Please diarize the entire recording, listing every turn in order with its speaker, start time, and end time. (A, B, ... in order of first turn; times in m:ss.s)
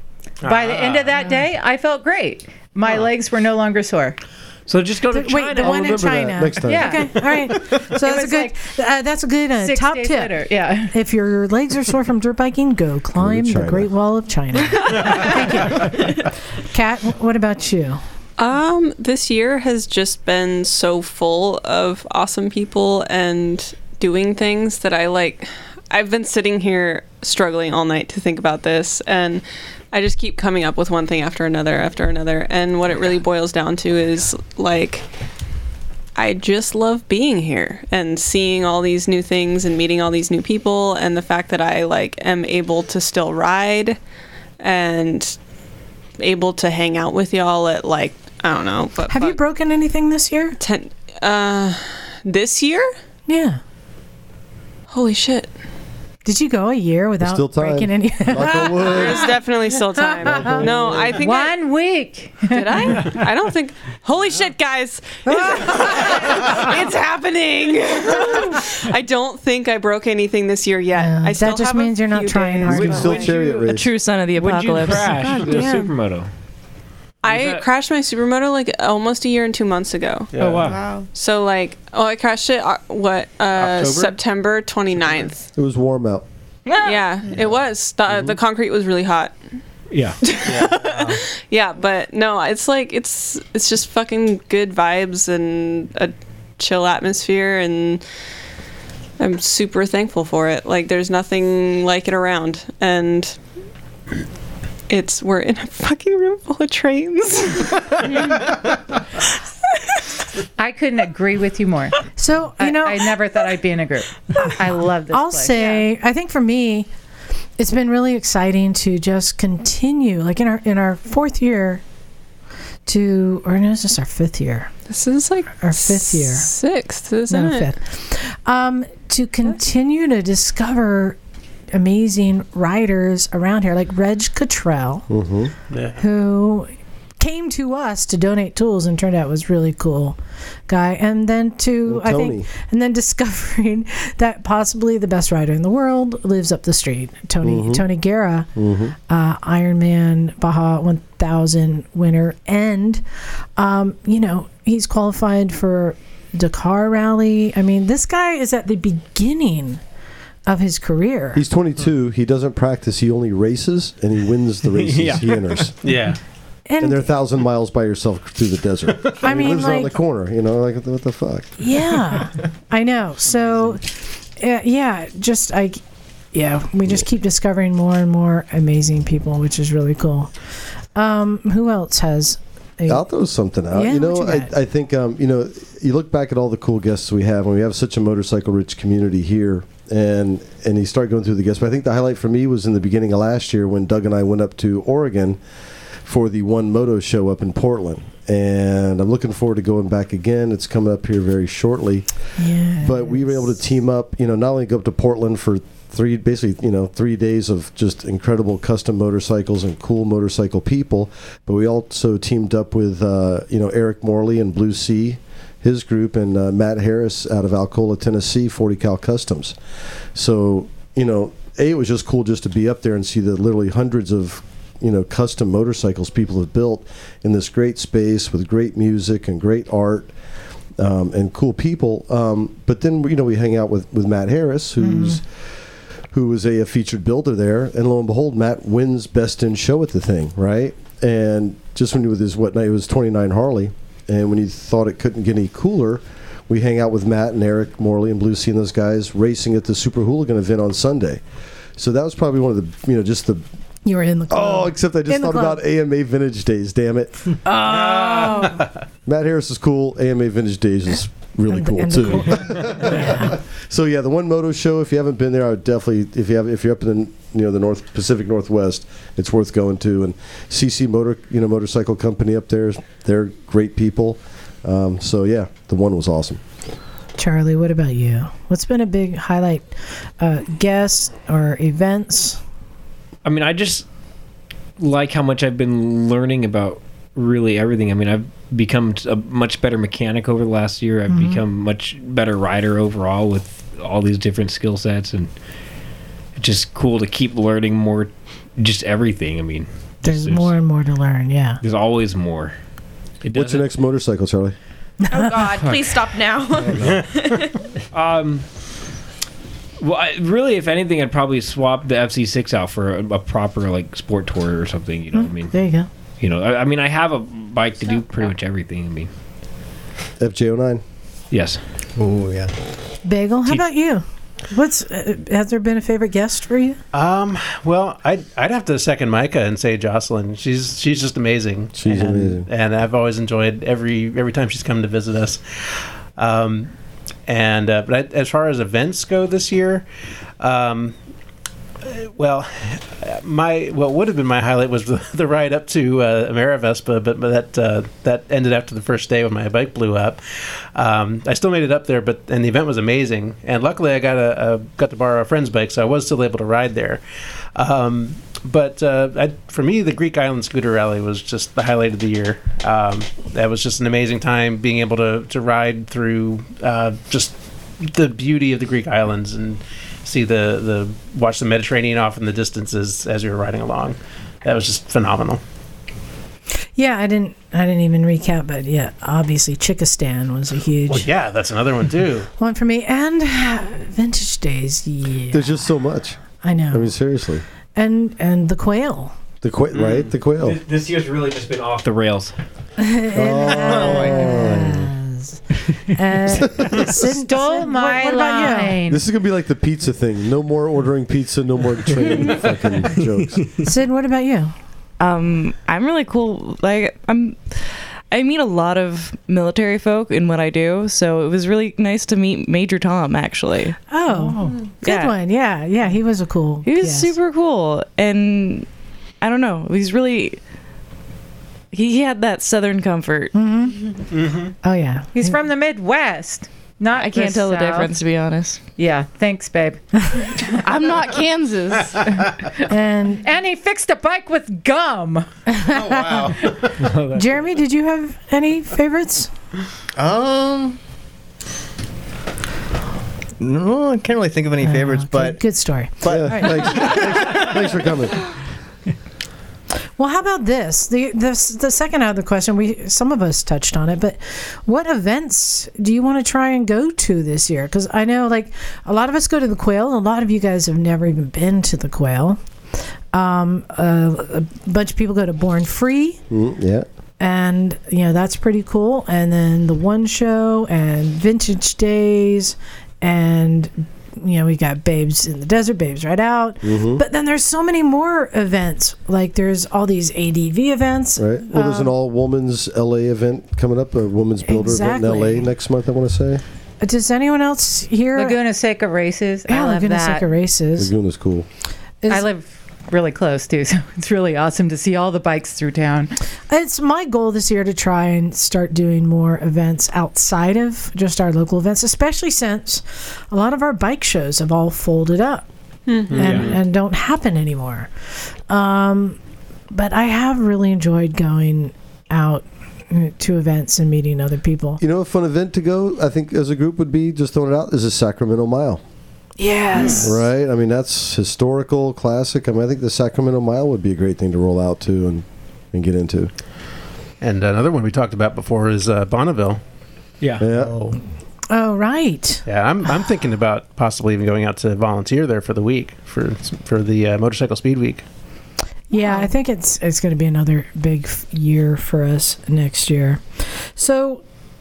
0:00.4-0:01.1 A
0:00.4-0:04.2 B
0:04.7-0:06.1 C
0:05.1-0:10.4 D
0:05.6-0:07.3 E
0:06.7-0:07.2 B
0:07.9-0:08.6 B
0:09.6-0:10.9 B
0:10.9-0:18.0 D
0:13.2-0:13.9 E
0:18.4-0:35.0 F
0:36.2-0:44.0 F
0:44.6-0:45.4 F
0:46.2-0:49.4 F
0:49.1-0:50.6 D
0:50.6-0:52.9 F
0:53.3-0:53.6 D
0:54.9-0:55.5 F
0:56.2-1:00.8 D
0:57.2-0:59.4 E
0:58.8-1:01.6 F
1:00.2-1:01.2 E
1:01.1-1:03.1 B
1:02.5-1:13.3 F
1:05.3-1:05.8 D
1:10.9-1:13.2 D
1:12.7-1:13.9 E
1:12.7-1:13.6 C
1:13.2-1:15.8 G
1:14.4-1:16.3 C
1:15.4-1:15.9 F
1:17.2-1:20.4 F
1:17.2-1:17.7 C
1:20.4-1:20.8 A
1:20.4-1:20.8 C
1:20.6-1:21.1 H
1:21.1-1:25.5 F
1:23.6-1:24.2 A
1:25.6-1:26.2 E
1:26.8-1:29.3 F
1:28.1-1:28.4 E
1:29.9-1:30.2 C
1:30.2-1:38.0 F
1:30.4-1:31.2 A
1:39.2-1:43.4 F
1:44.9-1:48.0 F
1:50.6-1:52.0 B
1:52.2-1:53.2 D
1:52.6-1:55.9 B
1:55.1-1:56.9 D
1:57.6-2:01.8 D
2:02.9-2:04.7 D
2:04.9-2:07.7 F
2:05.6-2:06.5 D
2:07.3-2:11.2 D
2:11.7-2:15.1 D
2:15.1-2:15.5 E
2:15.7-2:16.0 A
2:16.0-2:33.0 D
2:21.9-2:22.4 E
2:27.4-2:27.8 E
2:28.6-2:29.0 E
2:33.6-2:39.8 D
2:40.5-2:41.4 D
2:41.4-2:45.7 E
2:44.7-2:45.6 C
2:45.8-2:46.2 A
2:46.7-2:47.1 D
2:46.8-2:51.6 E
2:49.2-2:50.0 D
2:51.6-2:55.8 D
2:56.3-3:00.3 D
3:01.0-3:03.0 D
3:02.9-3:15.4 E
3:03.7-3:04.5 D
3:16.1-3:22.1 E
3:22.4-3:23.4 D
3:22.8-3:39.6 E
3:40.2-3:50.1 E
3:50.8-3:55.2 E
3:54.8-3:55.2 D
3:56.1-4:11.2 E
4:11.8-4:13.4 E
4:13.8-4:15.6 D
4:14.3-4:17.4 E
4:17.4-4:18.7 D
4:17.7-4:18.6 A
4:19.1-4:36.4 E
4:21.5-4:23.4 D
4:37.2-4:42.4 D
4:43.2-4:43.9 C
4:44.8-4:55.3 C
4:51.1-4:51.4 D
4:56.4-5:00.5 C
5:00.0-5:01.6 D
5:01.6-5:02.6 C
5:03.2-5:03.7 C
5:03.3-5:04.6 E
5:05.1-5:07.5 H
5:07.9-5:08.4 C
5:09.8-5:15.5 C
5:15.1-5:15.9 D
5:16.2-5:19.1 C
5:20.2-5:20.8 E
5:21.3-5:21.6 C
5:22.0-5:22.5 I
5:23.0-5:26.8 D
5:26.9-5:36.7 A
5:31.8-5:32.5 E
5:37.3-5:39.9 A
5:40.4-5:41.0 A
5:41.8-5:50.2 A
5:50.8-5:57.0 A
5:57.6-6:15.4 A
6:16.8-6:21.1 D
6:20.9-6:22.3 A
6:22.4-6:25.7 D
6:25.3-6:26.2 E
6:26.4-6:27.0 D
6:26.7-6:27.4 E
6:27.8-6:29.2 D
6:29.4-6:30.6 E
6:29.8-6:32.3 C
6:32.8-6:38.8 D
6:33.1-6:34.9 E
6:33.5-6:34.2 I
6:36.4-6:37.0 E
6:37.0-6:39.0 B
6:38.9-6:43.6 E
6:43.6-6:44.5 D
6:45.0-6:53.8 G
6:53.9-6:57.1 D
6:54.8-6:55.1 G
6:56.6-6:58.7 G
6:59.2-7:00.4 G
7:01.7-7:03.3 G
7:03.3-7:03.8 D
7:04.1-7:04.5 A
7:04.6-7:05.4 D
7:05.1-7:07.9 B
7:06.9-7:08.6 G
7:08.8-7:10.5 B
7:10.5-7:12.3 G
7:12.7-7:13.2 D
7:13.2-7:15.3 B
7:15.5-7:16.5 D
7:15.7-7:16.5 I
7:16.8-7:17.4 C
7:17.1-7:19.3 D
7:20.0-7:20.8 I
7:23.4-7:25.4 I
7:24.6-7:27.1 D
7:26.0-7:27.0 I
7:26.0-7:28.2 E
7:30.0-7:42.4 D
7:43.1-7:46.2 D
7:46.3-7:46.9 E
7:47.2-8:01.9 D
7:56.6-7:57.0 E
8:01.2-8:06.4 E
8:04.4-8:05.5 D
8:06.8-8:08.4 D
8:08.2-8:10.3 B
8:09.5-8:10.9 D
8:10.8-8:11.5 E
8:12.0-8:12.3 D
8:12.1-8:16.1 B
8:16.5-8:25.5 D
8:25.9-8:26.4 F
8:26.1-8:27.9 D
8:26.1-8:26.6 C
8:28.5-8:29.2 D
8:29.7-8:34.8 D
8:34.8-8:38.8 E
8:39.4-8:40.2 D
8:39.9-8:46.3 E
8:47.2-8:49.6 A
8:50.2-8:50.5 C
8:50.4-8:50.8 E
8:51.5-8:52.4 D
8:52.5-8:58.0 A
8:58.9-9:04.2 D